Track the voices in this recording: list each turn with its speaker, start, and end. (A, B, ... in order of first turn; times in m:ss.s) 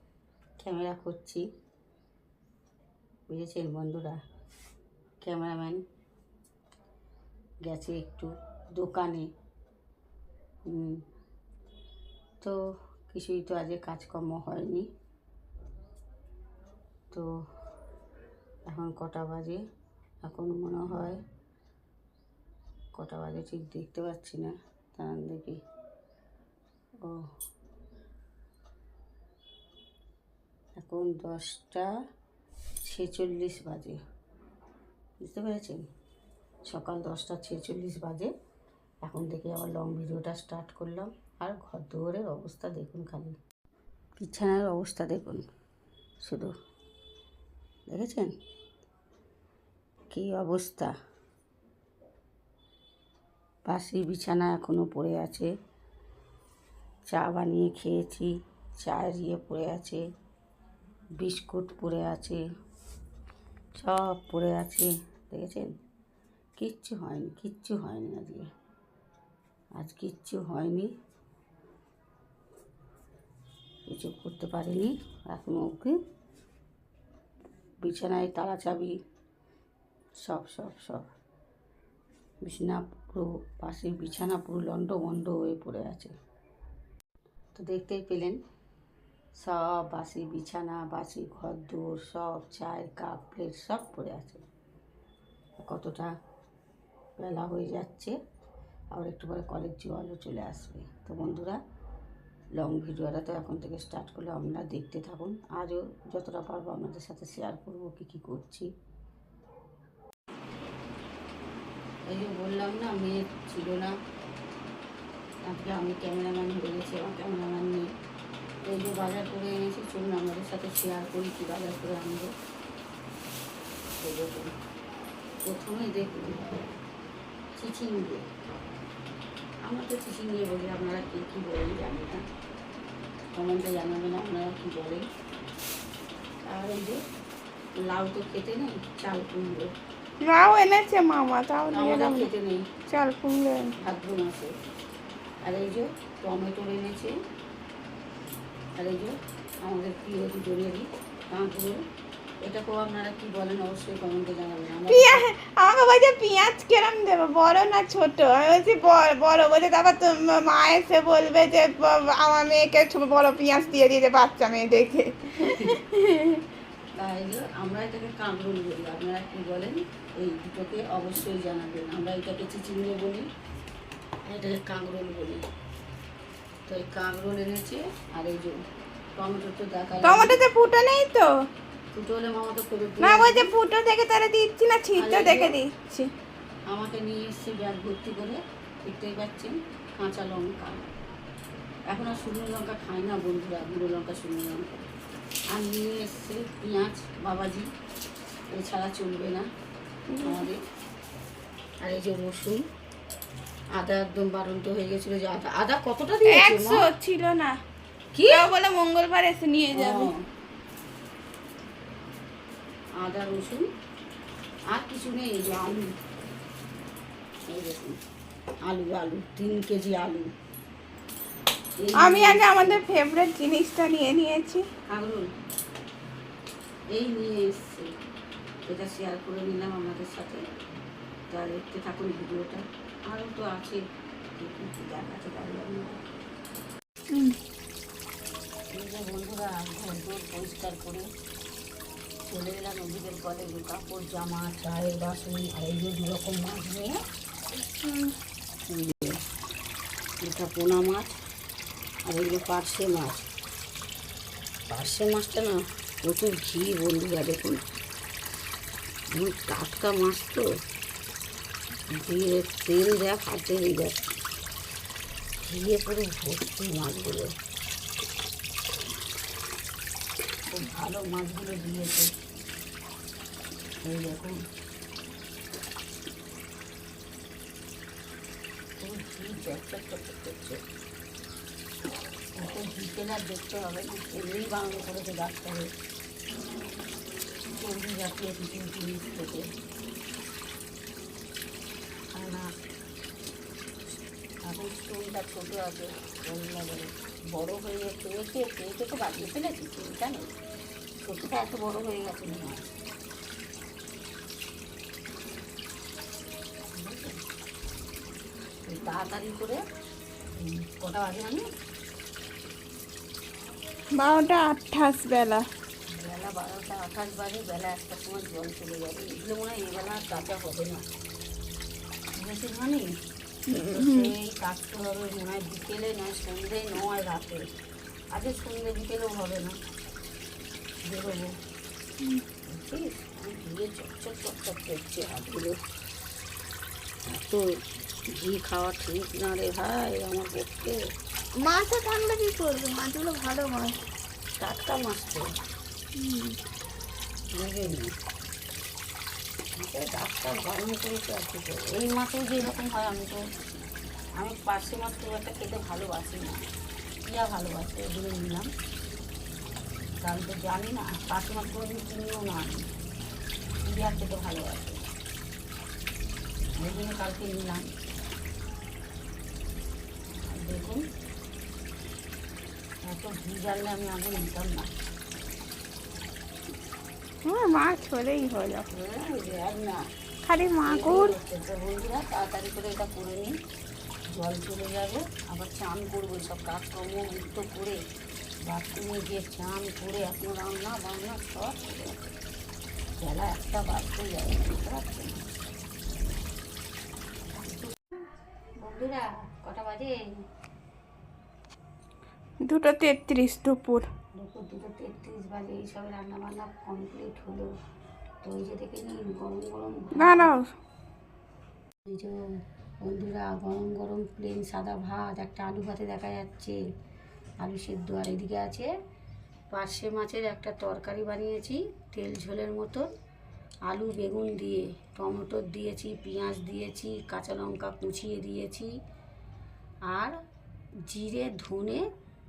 0:00.6-0:01.5 A
0:03.3-0:04.2 A
0:05.2-0:05.8 A
0:07.6-0:09.3 A
0:10.6-0:11.0 A
0:13.1-0:14.9 A
0:18.7-0:19.6 A
0:20.2-0:21.2 A
0:22.9-0:25.6 A
0:30.8-0:31.9 A
0:32.8-0:34.0 A
0:35.2-0:35.8 A
0:36.6-0:38.3 A
0:39.0-0:43.4 A
0:44.2-0:45.4 A
0:46.2-0:46.5 A
0:47.9-0:48.4 A
0:50.1-0:50.9 A
0:53.6-0:55.5 A
0:57.1-1:00.0 A
1:01.2-1:02.4 A
1:03.8-1:05.7 A
1:06.6-1:08.5 A
1:09.8-1:10.9 A
1:13.9-1:16.0 A
1:17.8-1:19.0 A
1:20.2-1:21.1 A
1:22.4-1:26.1 A
1:27.5-1:28.4 A
1:29.4-1:34.4 A
1:35.6-1:36.1 A
1:37.2-1:38.1 A
1:38.9-1:41.6 A
1:42.6-1:48.7 A
1:52.1-1:53.9 A
1:55.4-1:57.9 A
1:58.6-2:02.3 A
2:04.0-2:04.5 A
2:05.4-2:06.6 A
2:07.6-2:08.3 A
2:09.6-2:12.2 A
2:13.3-2:15.1 A
2:16.4-2:17.0 A
2:17.8-2:19.7 A
2:20.2-2:22.3 B
2:21.7-2:22.7 A
2:22.9-2:23.7 B
2:23.8-2:24.5 A
2:25.4-2:27.2 A
2:28.7-2:31.8 A
2:32.4-2:35.2 A
2:34.9-2:46.4 B
2:45.4-2:45.7 A
2:47.0-2:53.3 A
2:54.2-2:55.4 A
2:56.7-2:58.6 A
2:59.2-3:00.4 A
3:00.0-3:01.3 B
3:01.9-3:03.5 A
3:03.0-3:06.1 B
3:05.0-3:05.6 A
3:06.7-3:10.8 A
3:11.9-3:14.7 A
3:15.5-3:17.7 A
3:18.5-3:19.5 A
3:20.1-3:20.5 B
3:20.2-3:20.6 A
3:21.8-3:22.7 A
3:23.7-3:26.9 A
3:26.3-3:27.6 B
3:28.1-3:28.5 A
3:28.2-3:30.1 B
3:29.7-3:30.3 A
3:33.0-3:33.7 A
3:34.7-3:35.9 A
3:37.5-3:38.0 A
3:38.6-3:40.3 A
3:41.8-3:42.8 A
3:42.0-3:44.7 B
3:44.8-3:45.3 A
3:46.9-3:47.9 A
3:48.6-3:50.4 A
3:51.3-3:53.8 A
3:54.4-3:56.0 A
3:57.1-3:57.4 B
3:58.7-4:01.1 A
4:02.3-4:06.9 A
4:07.6-4:08.1 B
4:08.7-4:09.2 A
4:10.2-4:11.1 A
4:12.1-4:13.3 A
4:14.7-4:17.6 A
4:19.1-4:20.4 A
4:22.0-4:24.0 A
4:25.4-4:27.3 A
4:30.5-4:32.1 A
4:33.8-4:34.4 A
4:38.8-4:40.6 A
4:42.4-4:45.7 A
4:47.5-4:49.5 A
4:52.1-4:52.5 A
4:54.4-5:00.3 A
5:01.0-5:02.7 A
5:06.7-5:07.2 A
5:08.6-5:09.6 A
5:10.4-5:11.5 A
5:13.9-5:15.5 B
5:15.9-5:20.8 A
5:22.2-5:23.0 A
5:23.5-5:24.1 B
5:23.5-5:27.4 A
5:28.1-5:29.6 A
5:30.8-5:31.4 A
5:32.4-5:35.6 A
5:37.0-5:40.8 A
5:41.4-5:43.8 B
5:44.4-5:45.3 A
5:46.0-5:46.4 B
5:47.3-5:47.9 A
5:49.6-5:53.2 A
5:54.2-5:56.4 A
5:57.0-5:58.5 A
6:00.0-6:02.7 A
6:03.6-6:04.8 A
6:06.6-6:07.7 A
6:10.1-6:10.8 A
6:12.9-6:14.7 A
6:17.2-6:18.6 B
6:18.7-6:19.9 A
6:20.2-6:21.1 B
6:20.6-6:23.4 A
6:24.1-6:27.8 A
6:28.4-6:32.1 A
6:33.0-6:35.2 A
6:37.3-6:38.0 A
6:38.6-6:40.2 A
6:42.4-6:43.9 B
6:44.1-6:47.5 A
6:48.2-6:50.3 A
6:49.9-6:50.5 B
6:51.9-6:52.2 A
6:52.8-6:56.6 A
6:57.4-6:58.7 A
6:59.5-7:02.9 A
7:03.7-7:08.7 A
7:09.9-7:10.2 A
7:10.8-7:11.9 A